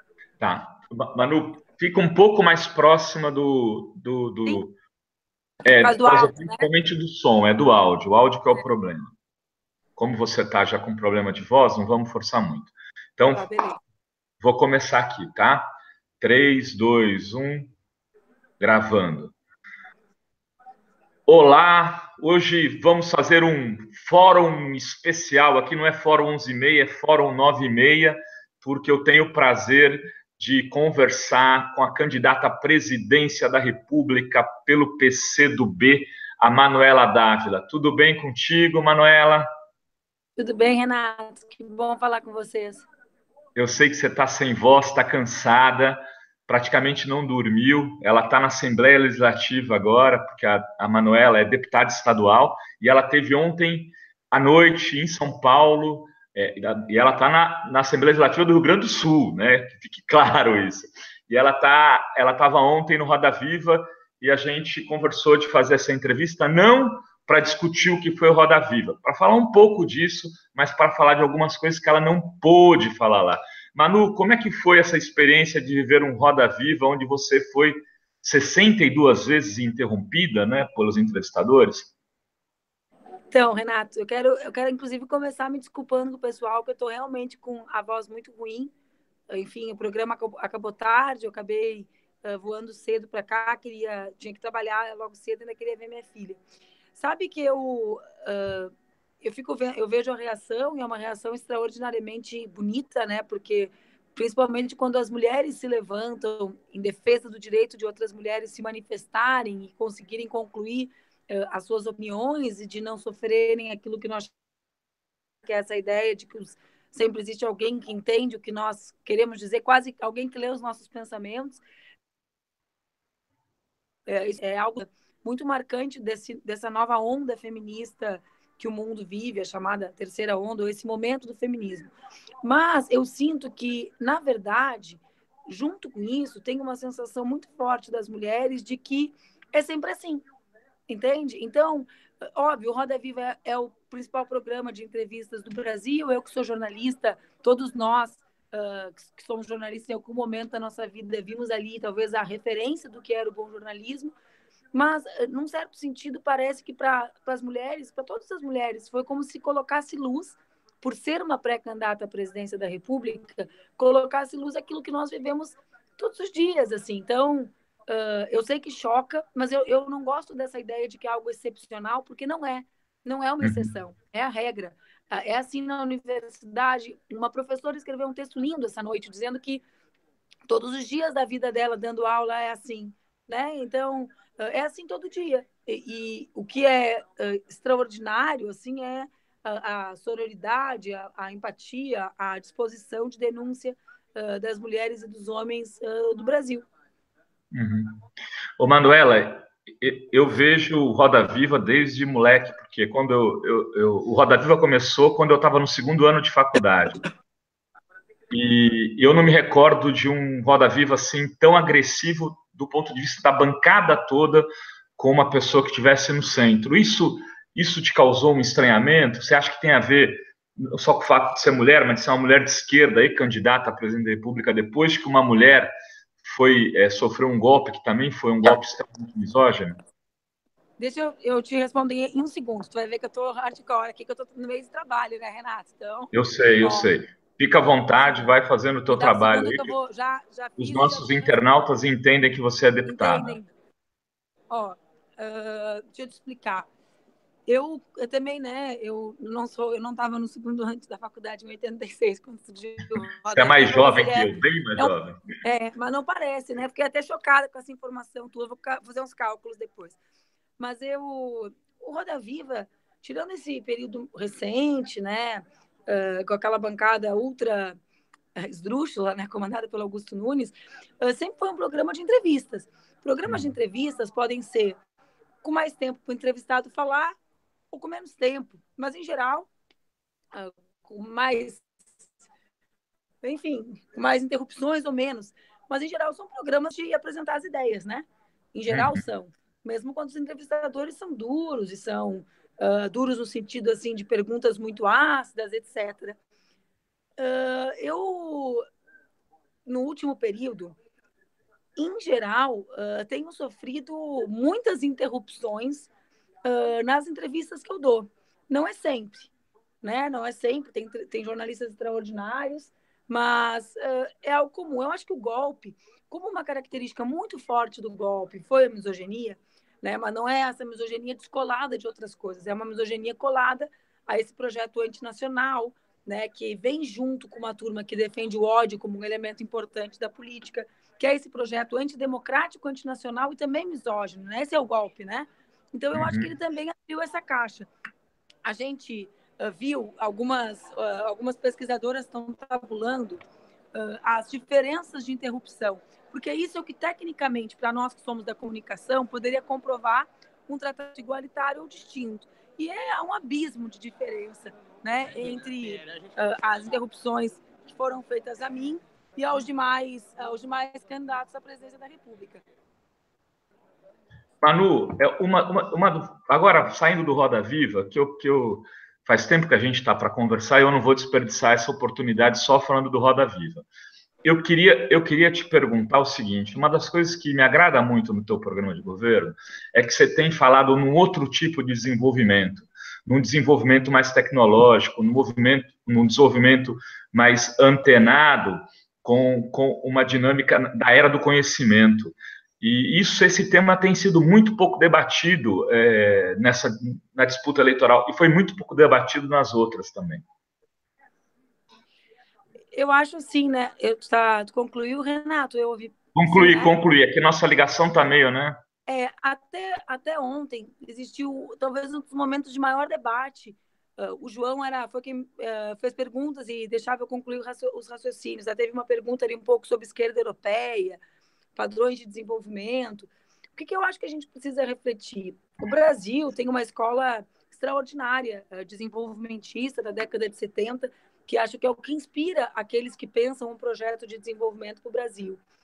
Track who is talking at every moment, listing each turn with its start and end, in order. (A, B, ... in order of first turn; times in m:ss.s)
0:00.4-0:04.7 A
0:05.6-0:09.1 A
0:05.7-0:06.7 B
0:10.0-0:13.4 A
0:13.3-0:13.8 B
0:14.4-0:15.7 A
0:16.2-0:17.7 A
0:18.6-0:19.3 A
0:21.3-0:39.4 A
0:40.4-0:42.8 B
0:43.6-1:21.9 A
1:23.3-1:28.7 B
1:29.3-1:36.4 B
1:36.9-1:54.3 B
1:55.4-2:01.6 B
2:04.1-2:11.9 B
2:12.4-2:20.2 B
2:20.9-2:34.1 B
2:34.7-2:59.6 B
2:53.4-2:53.7 A
3:00.5-3:16.6 B
3:17.5-3:18.0 A
3:18.6-3:27.0 A
3:28.3-3:34.4 A
3:35.0-3:45.7 A
3:46.2-3:49.8 A
3:50.8-3:56.9 B
3:56.1-3:59.7 A
3:57.9-3:58.3 B
3:58.9-4:01.4 B
4:00.6-4:03.4 A
4:02.8-4:03.5 B
4:04.5-4:06.7 B
4:07.5-4:20.0 B
4:13.3-4:15.2 A
4:20.6-4:27.8 B
4:28.4-4:34.8 B
4:33.3-4:33.5 A
4:35.4-4:37.2 B
4:37.7-4:39.5 B
4:40.3-4:41.6 B
4:43.2-4:56.2 B
4:48.7-4:49.0 A
4:57.2-4:58.6 B
4:59.6-5:00.8 B
5:01.8-5:05.9 B
5:06.4-5:37.7 B
5:35.9-5:36.3 A
5:38.4-5:43.2 B
5:43.7-6:02.4 B
6:04.4-6:13.6 A
6:14.2-6:40.2 A
6:42.7-6:46.7 B
6:46.1-6:48.6 A
6:48.9-7:01.0 B
7:01.6-7:15.4 B